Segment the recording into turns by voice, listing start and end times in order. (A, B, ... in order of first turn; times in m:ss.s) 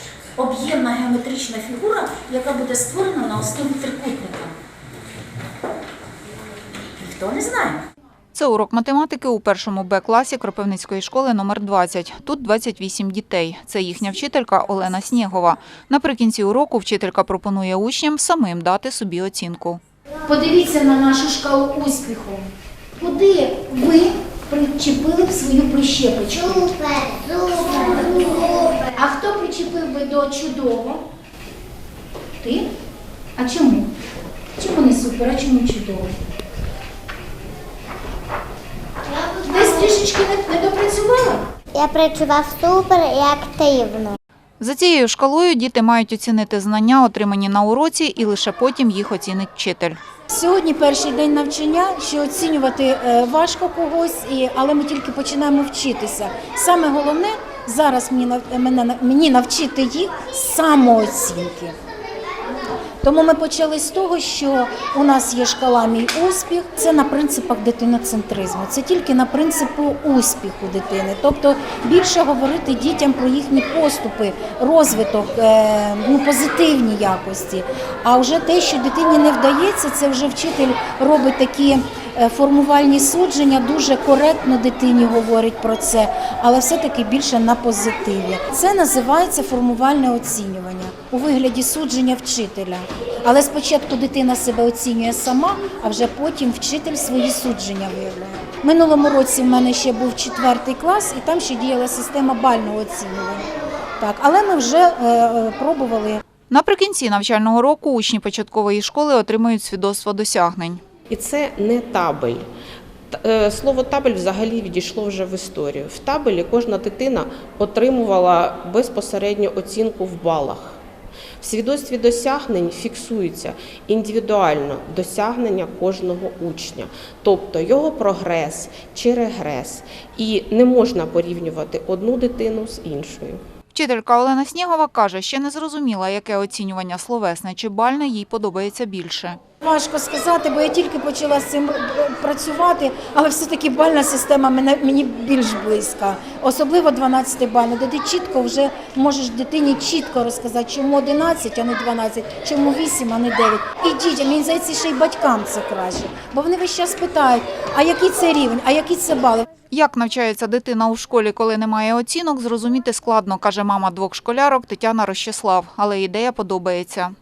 0:00.4-0:04.5 A
0:07.0-0:07.8 A
0:08.3-0:19.8 B
0:20.2-0:22.5 C
0:23.0-0:26.7 C
0:26.4-0:28.9 D
0:27.6-0:31.0 C
0:32.4-0:32.7 C
0:33.4-0:33.9 C
0:34.6-0:36.1 C
0:39.1-0:40.0 D
0:39.4-0:41.5 C
0:41.7-0:44.2 D
0:44.6-0:50.0 B
0:50.3-1:01.8 C
1:03.0-1:46.2 C
1:46.5-1:50.8 B
1:51.1-1:52.4 E
1:53.1-2:00.8 E
2:01.4-2:13.4 E
2:13.7-2:19.4 B
2:19.6-2:39.5 C
2:39.7-2:47.1 B